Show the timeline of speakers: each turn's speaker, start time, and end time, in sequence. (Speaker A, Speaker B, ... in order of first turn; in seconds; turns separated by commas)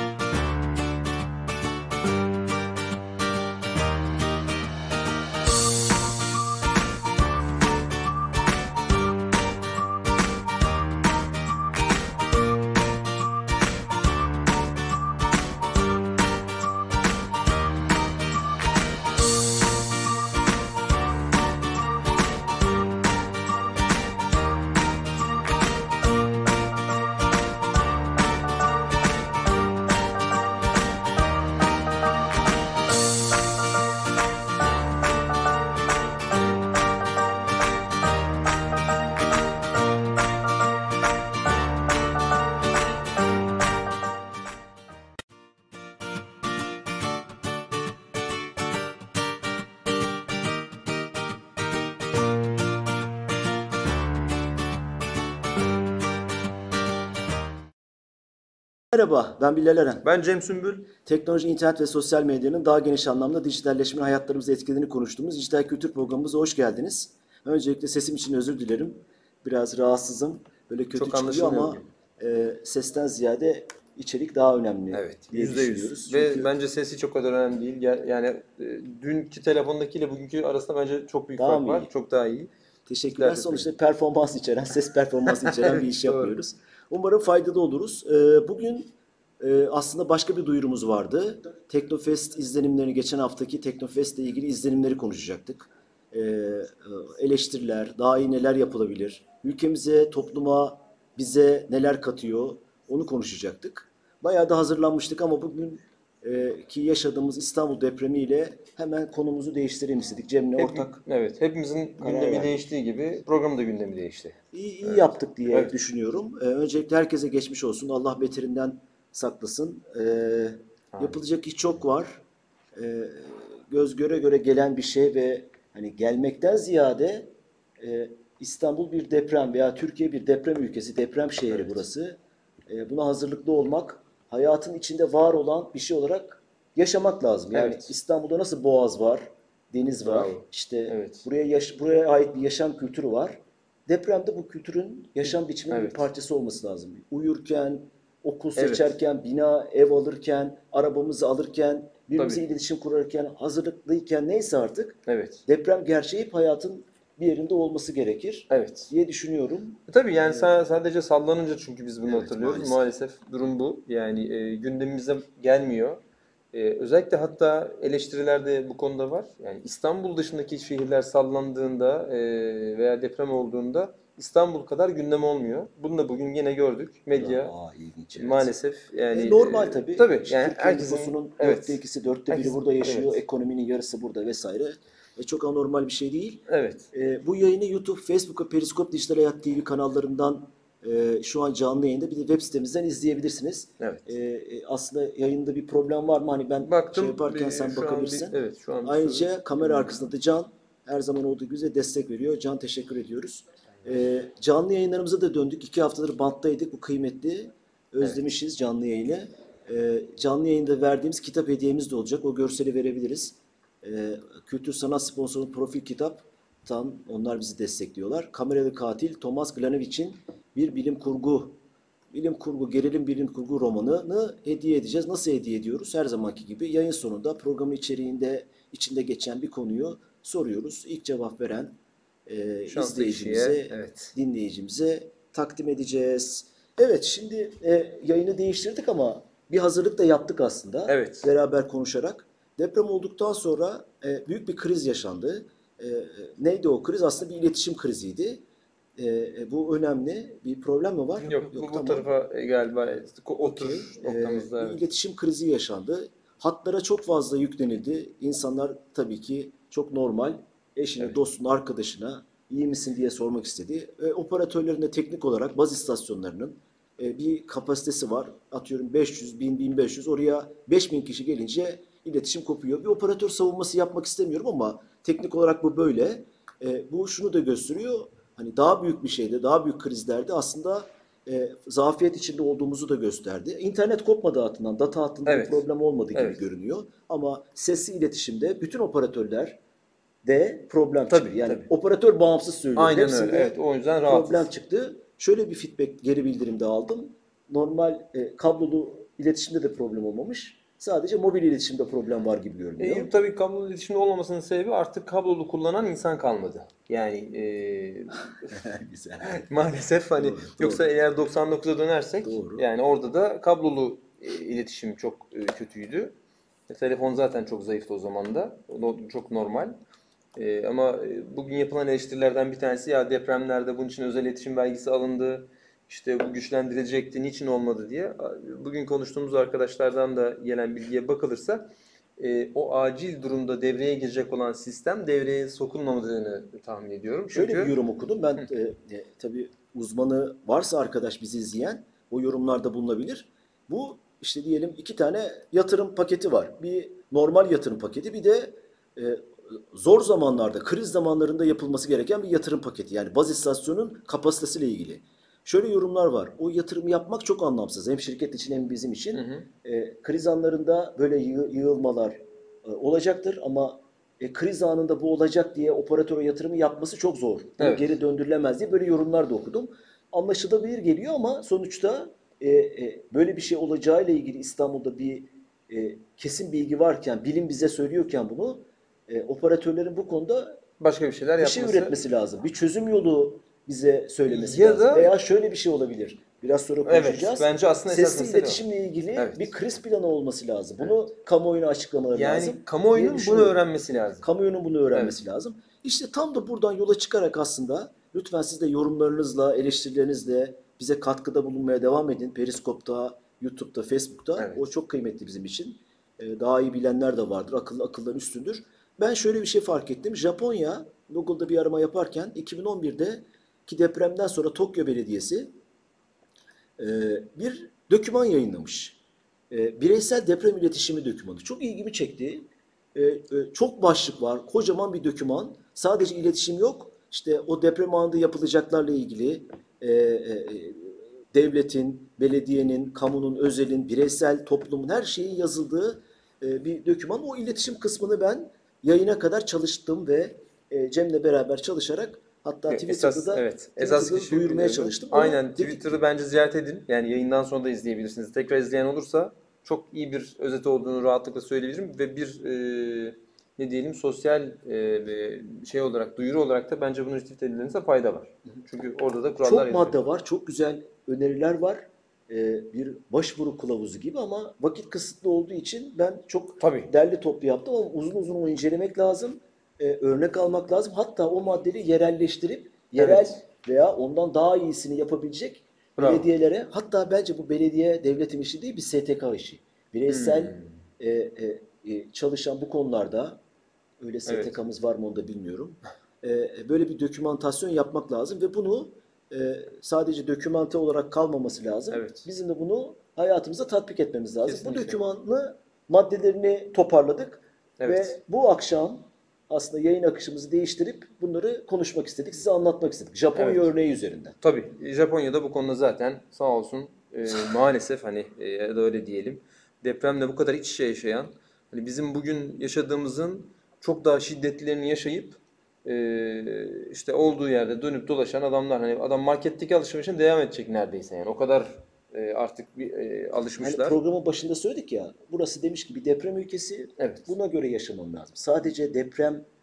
Speaker A: 58.9-60.0, Speaker B: 60.0-60.9, Speaker A: 61.0-76.5, Speaker B: 70.9-71.8, Speaker B: 74.9-82.5, Speaker A: 81.3-81.9, Speaker A: 82.8-111.0, Speaker B: 83.1-83.7, Speaker B: 85.4-86.4, Speaker B: 110.5-115.7, Speaker A: 112.0-112.6, Speaker A: 114.5-122.2, Speaker B: 120.9-121.2, Speaker A: 122.7-160.5, Speaker B: 131.5-131.8, Speaker B: 137.5-137.9, Speaker B: 140.1-141.2, Speaker B: 145.7-146.1, Speaker B: 148.6-148.9, Speaker B: 152.2-152.4, Speaker B: 155.1-155.4, Speaker B: 158.5-158.9, Speaker B: 159.9-166.0, Speaker A: 162.1-162.8, Speaker B: 166.5-177.5, Speaker A: 177.1-178.5, Speaker B: 178.1-183.2, Speaker A: 179.1-221.6, Speaker B: 186.5-186.9, Speaker B: 196.6-200.0, Speaker A: 222.1-248.4, Speaker B: 232.7-234.1, Speaker B: 240.9-241.3, Speaker A: 249.0-252.1, Speaker B: 251.2-254.8, Speaker A: 253.4-289.6, Speaker B: 285.2-286.4, Speaker A: 290.2-303.1, Speaker B: 291.1-291.7, Speaker B: 292.8-294.5, Speaker B: 302.8-316.1, Speaker A: 308.5-309.5, Speaker A: 310.2-310.9, Speaker A: 312.2-312.6, Speaker B: 316.7-319.8, Speaker B: 320.4-337.7, Speaker A: 337.3-380.6, Speaker B: 359.1-359.5, Speaker B: 367.6-367.9, Speaker B: 380.8-381.9, Speaker A: 381.4-393.6, Speaker B: 384.3-385.1, Speaker B: 386.8-388.6, Speaker B: 389.1-389.5, Speaker B: 392.1-394.3, Speaker A: 394.2-415.5, Speaker B: 404.4-404.6, Speaker A: 416.8-419.0, Speaker A: 419.5-446.0, Speaker B: 442.7-460.0, Speaker A: 459.4-483.4, Speaker B: 466.6-466.9, Speaker B: 473.0-473.4, Speaker B: 476.0-476.3, Speaker B: 480.1-480.8, Speaker A: 484.0-504.3, Speaker B: 484.2-484.6, Speaker B: 491.9-492.3, Speaker B: 494.4-495.0, Speaker B: 497.8-498.2, Speaker B: 503.3-503.7, Speaker B: 504.4-524.0, Speaker A: 523.6-529.5, Speaker B: 527.0-527.3